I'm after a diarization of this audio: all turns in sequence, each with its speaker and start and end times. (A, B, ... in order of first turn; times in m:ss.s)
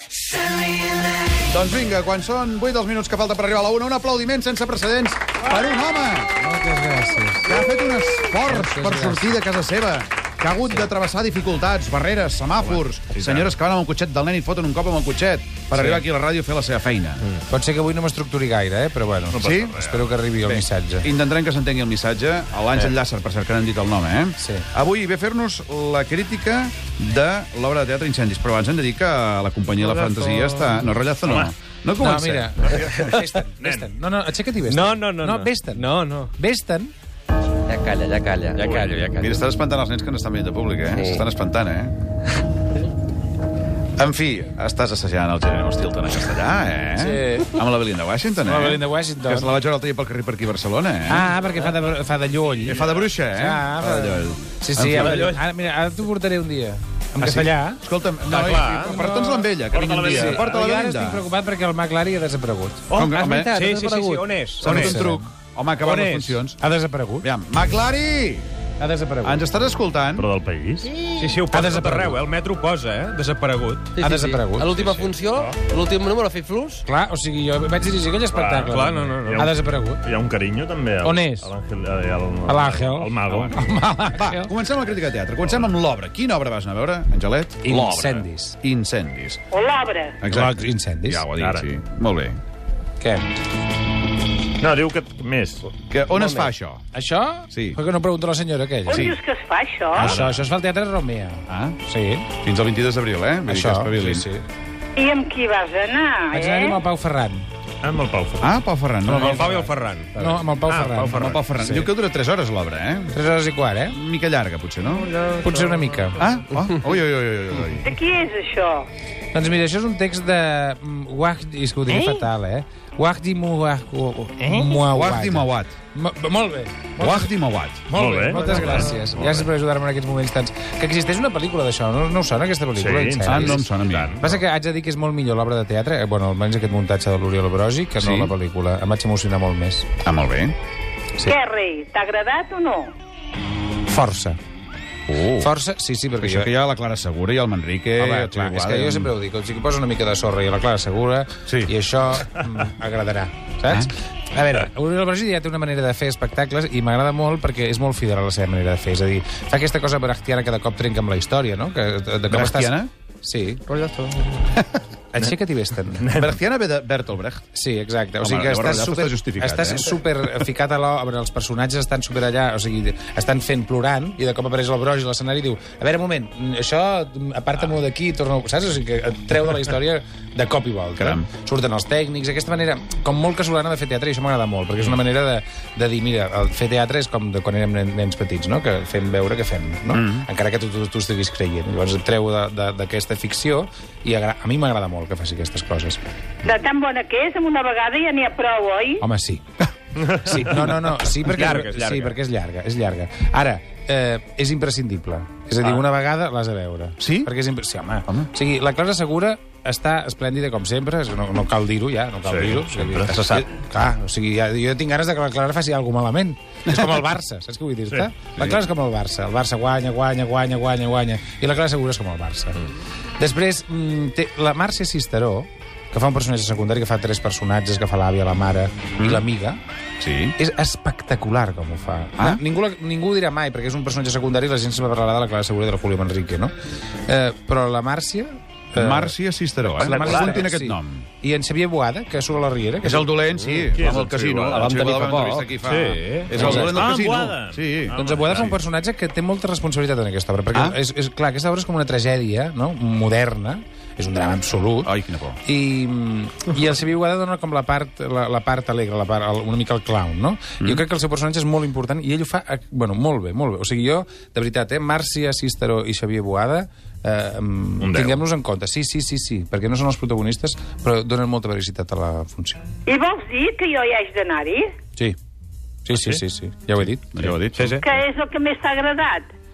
0:01.4-0:06.3 A
0:06.4-0:07.5 B
0:07.4-0:17.2 A
0:08.4-0:09.4 B
0:13.2-0:13.5 C
0:15.7-0:16.0 B
0:17.5-0:21.1 B
0:19.3-0:20.0 C
0:19.4-0:19.8 A
0:20.4-0:33.2 A
0:24.4-0:24.7 B
0:31.2-0:31.5 C
0:32.0-0:36.9 B
0:33.6-0:33.9 C
0:34.7-0:36.3 D
0:37.6-0:39.3 E
0:38.6-0:38.9 C
0:39.0-0:39.2 D
0:39.2-0:42.0 A
0:40.9-0:41.2 E
0:44.0-0:51.3 A
0:47.0-0:47.5 B
0:48.4-0:49.5 B
0:51.1-0:57.8 B
0:52.6-0:55.3 A
0:55.0-0:55.4 D
0:57.2-1:01.2 A
0:58.3-0:58.9 D
0:58.6-1:02.9 B
0:59.7-1:00.5 C
1:02.9-1:03.6 A
1:02.9-1:05.0 D
1:03.4-1:05.3 B
1:04.6-1:06.6 A
1:05.8-1:06.4 D
1:06.6-1:07.2 B
1:07.2-1:08.5 A
1:08.8-1:09.4 B
1:09.2-1:10.3 A
1:10.1-1:10.9 C
1:10.9-1:11.4 E
1:11.2-1:14.0 D
1:11.5-1:12.2 B
1:13.9-1:16.8 E
1:14.0-1:15.0 B
1:14.8-1:15.2 D
1:15.3-1:15.6 C
1:16.8-1:20.0 B
1:18.4-1:23.8 C
1:18.4-1:19.5 D
1:21.0-1:21.5 B
1:22.4-1:24.5 B
1:24.1-1:29.4 A
1:27.6-1:28.6 B
1:29.5-1:30.2 F
1:30.2-1:32.4 A
1:30.3-1:31.2 B
1:31.3-1:31.7 C
1:33.0-1:33.2 B
1:34.6-1:35.8 C
1:35.9-1:36.8 A
1:36.1-1:36.5 E
1:36.9-1:39.1 B
1:37.5-1:37.8 A
1:38.8-1:40.2 F
1:38.9-1:39.2 A
1:39.9-1:42.3 B
1:40.0-1:40.3 C
1:41.5-1:41.8 A
1:42.3-1:44.2 A
1:43.5-1:44.4 B
1:45.0-1:46.8 F
1:46.3-1:47.4 B
1:47.8-1:48.5 C
1:48.4-1:49.6 A
1:49.1-1:51.9 B
1:49.1-1:51.2 D
1:50.7-1:51.3 C
1:51.0-1:53.1 A
1:53.1-1:54.0 B
1:53.9-1:55.1 A
1:55.2-1:55.5 E
1:55.4-1:56.2 B
1:56.2-1:57.9 A
1:57.8-1:58.9 F
1:59.3-2:07.3 B
2:04.9-2:05.7 A
2:07.0-2:07.9 A
2:07.9-2:13.7 B
2:07.9-2:09.4 C
2:12.7-2:14.4 C
2:13.2-2:14.2 A
2:14.2-2:19.9 B
2:18.0-2:18.3 A
2:20.0-2:20.5 A
2:21.2-2:22.9 F
2:23.9-2:24.4 B
2:25.1-2:25.5 A
2:25.4-2:26.5 B
2:26.2-2:29.1 A
2:28.0-2:43.7 B
2:42.3-2:42.9 A
2:43.8-2:44.3 D
2:45.1-2:46.2 B
2:46.0-2:46.3 C
2:46.1-2:47.5 A
2:47.5-3:16.0 B
2:48.2-2:50.0 A
3:01.0-3:01.3 A
3:09.9-3:10.3 A
3:16.4-3:19.0 F
3:19.0-3:19.4 B
3:20.0-3:49.6 B
3:20.1-3:22.1 D
3:27.0-3:27.3 A
3:32.2-3:33.1 C
3:33.0-3:33.4 E
3:50.0-3:50.4 A
3:50.4-4:03.1 B
3:58.7-4:01.0 A
4:02.8-4:08.4 A
4:03.4-4:03.7 E
4:03.7-4:04.7 C
4:04.5-4:06.8 E
4:05.6-4:08.6 C
4:06.3-4:06.8 B
4:07.9-4:14.9 B
4:14.8-4:15.4 A
4:15.4-4:32.6 B
4:27.8-4:28.2 C
4:32.9-4:34.7 F
4:35.8-4:37.3 B
4:35.9-4:36.2 C
4:37.1-4:37.8 A
4:37.2-4:37.6 C
4:37.6-4:37.8 D
4:37.8-4:39.3 F